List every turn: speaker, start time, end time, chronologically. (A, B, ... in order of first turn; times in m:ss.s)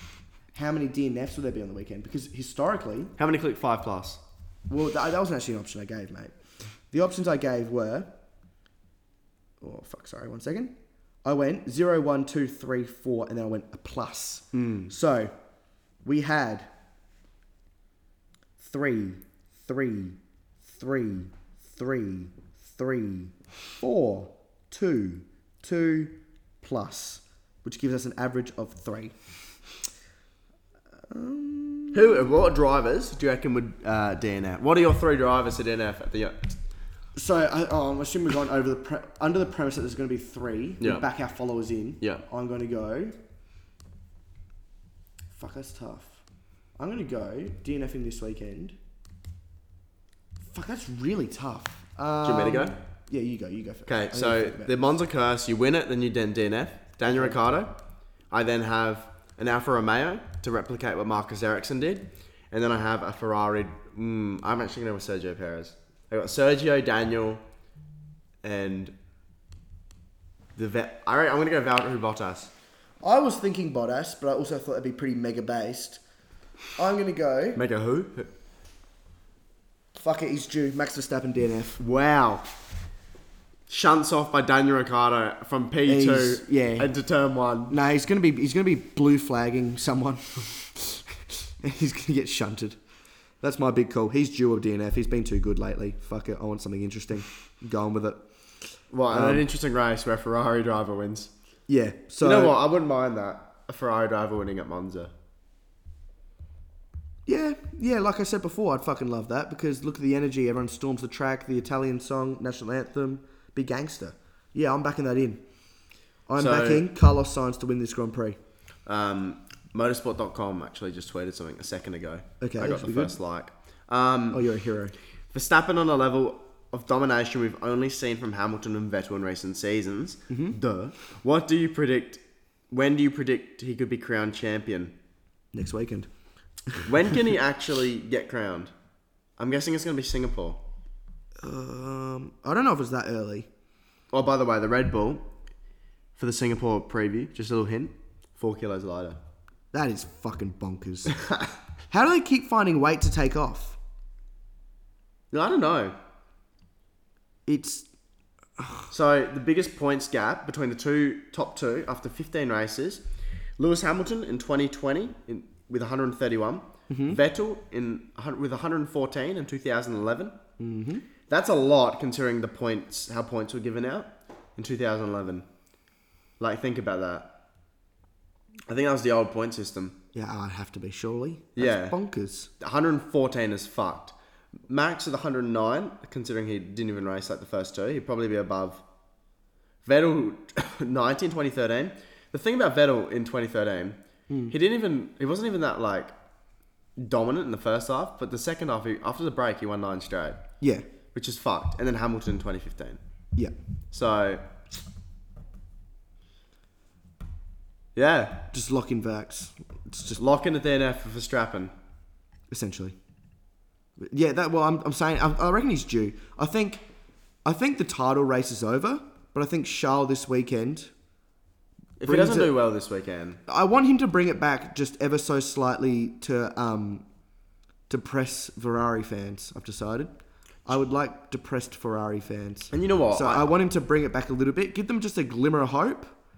0:00.5-0:03.1 A
0:03.2-0:04.2 B
0:04.7-0:06.4 A
0:06.9-0:08.1 A
0:09.6-0:15.3 A
0:14.5-0:14.9 B
0:16.0-0:16.7 A
0:18.6-0:29.1 A
0:31.1-0:32.3 A
0:31.9-0:36.5 B
0:37.2-0:43.2 A
0:45.3-0:46.2 A
0:46.8-0:48.8 A
0:50.5-0:54.8 A
0:52.2-0:52.8 B
0:53.9-0:57.7 B
0:57.0-0:57.4 A
0:58.3-1:07.4 B
1:08.4-1:08.9 B
1:10.5-1:12.5 B
1:13.0-1:16.0 A
1:16.8-1:17.6 A
1:17.5-1:18.3 B
1:19.9-1:21.8 A
1:21.8-1:22.5 B
1:23.7-1:27.8 B
1:25.8-1:26.9 A
1:27.7-1:31.0 A
1:31.6-1:32.8 A
1:33.4-1:38.2 A
1:38.9-1:41.3 B
1:39.1-1:39.5 A
1:41.7-1:42.6 A
1:42.2-1:45.1 B
1:47.2-1:55.4 A
1:56.3-1:58.4 A
1:56.4-1:56.8 B
1:58.8-2:04.4 B
2:02.4-2:03.2 A
2:04.3-2:04.9 A
2:05.3-2:14.9 B
2:10.3-2:10.6 A
2:15.5-2:16.1 A
2:16.8-2:18.7 B
2:19.4-2:20.6 B
2:21.4-2:23.5 A
2:24.1-2:25.2 B
2:26.2-2:29.2 B
2:29.7-2:31.2 A
2:31.9-2:33.8 A
2:35.3-2:36.0 B
2:37.4-2:37.9 A
2:38.6-2:38.9 A
2:38.9-2:43.0 B
2:43.6-2:50.4 B
2:46.9-2:47.2 A
2:50.6-2:51.0 A
2:51.3-2:55.4 B
2:56.4-2:57.3 B
2:58.7-3:00.0 B
3:00.1-3:02.5 A
3:01.6-3:02.0 B
3:02.6-3:04.1 B
3:04.7-3:08.8 B
3:09.8-3:14.0 B
3:14.5-3:16.1 B
3:17.0-3:20.4 B
3:21.1-3:23.0 B
3:23.9-3:24.4 B
3:27.9-3:28.4 B
3:28.5-3:30.2 A
3:30.2-3:31.7 B
3:32.5-3:33.0 A
3:34.0-3:36.8 A
3:37.4-3:40.9 A
3:42.0-3:43.4 B
3:42.0-3:42.6 A
3:43.5-3:47.0 A
3:47.9-3:50.1 A
3:50.6-3:56.1 A
3:52.7-3:53.5 B